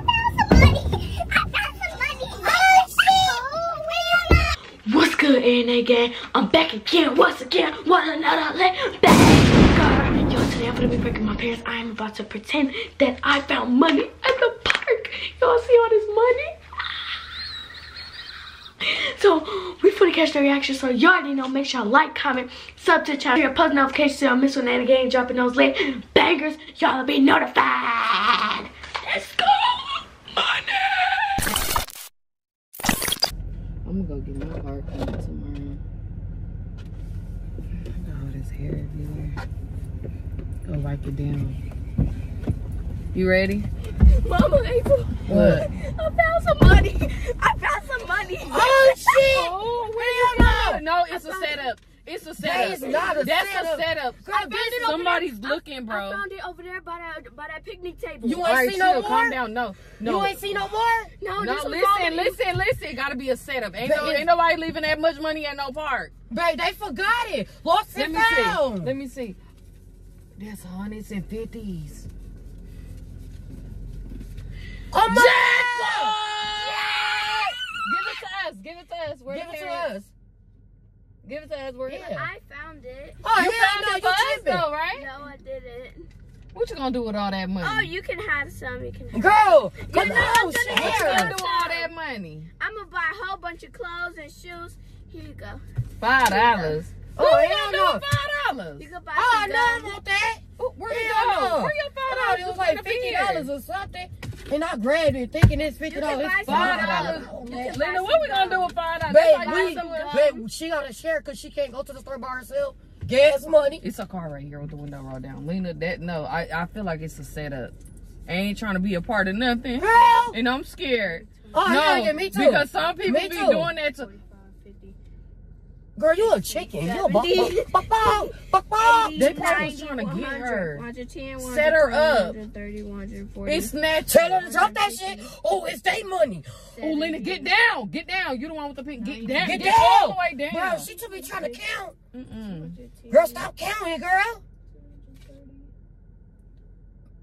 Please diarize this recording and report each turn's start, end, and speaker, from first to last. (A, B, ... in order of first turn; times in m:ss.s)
0:01.6-0:16.4 A
0:04.9-0:16.4 B
0:19.2-0:25.6 A
0:19.2-0:28.6 B
0:26.2-0:28.1 A
0:29.1-0:29.8 B
0:29.1-0:29.4 A
0:33.8-0:35.8 C
0:37.9-0:39.4 C
0:40.6-0:41.6 C
0:43.1-0:43.7 C
0:44.0-0:49.3 A
0:45.3-0:45.7 D
0:45.3-0:45.6 C
0:48.4-0:50.8 D
0:49.2-0:56.2 C
0:51.1-0:51.7 A
0:52.4-0:54.6 D
0:52.5-0:53.1 A
0:54.3-0:58.4 A
0:58.2-0:59.4 D
0:58.4-1:00.4 C
1:00.0-1:01.1 D
1:01.2-1:02.4 A
1:01.4-1:06.1 C
1:03.8-1:04.3 D
1:06.3-1:08.9 D
1:08.0-1:09.4 C
1:10.4-1:12.1 C
1:14.9-1:16.2 D
1:15.0-1:19.9 C
1:16.8-1:17.1 D
1:19.3-1:20.1 D
1:21.2-1:22.0 C
1:21.9-1:22.3 D
1:21.9-1:23.2 A
1:23.2-1:24.6 D
1:23.4-1:25.1 C
1:24.9-1:26.1 A
1:26.5-1:27.9 C
1:27.6-1:31.9 A
1:29.1-1:31.4 D
1:30.8-1:32.5 C
1:32.6-1:35.6 A
1:36.0-1:38.9 C
1:36.2-1:36.8 A
1:37.1-1:38.0 D
1:38.8-1:40.0 A
1:39.1-1:47.8 D
1:40.6-1:43.5 C
1:45.9-1:48.8 A
1:46.4-1:50.4 C
1:49.1-1:53.8 D
1:49.4-1:50.4 A
1:53.8-1:57.7 C
1:58.3-2:04.1 C
1:59.8-2:00.4 D
2:01.0-2:01.8 A
2:01.5-2:03.7 D
2:03.9-2:05.0 A
2:06.0-2:09.7 D
2:06.2-2:13.8 A
2:09.1-2:10.8 C
2:11.4-2:12.3 C
2:13.5-2:14.7 C
2:14.1-2:16.7 D
2:14.6-2:15.3 A
2:16.8-2:17.6 A
2:16.8-2:20.9 C
2:19.0-2:19.8 A
2:19.3-2:21.9 D
2:20.9-2:21.7 A
2:22.1-2:22.7 C
2:22.4-2:23.5 A
2:23.1-2:24.4 D
2:24.8-2:25.7 A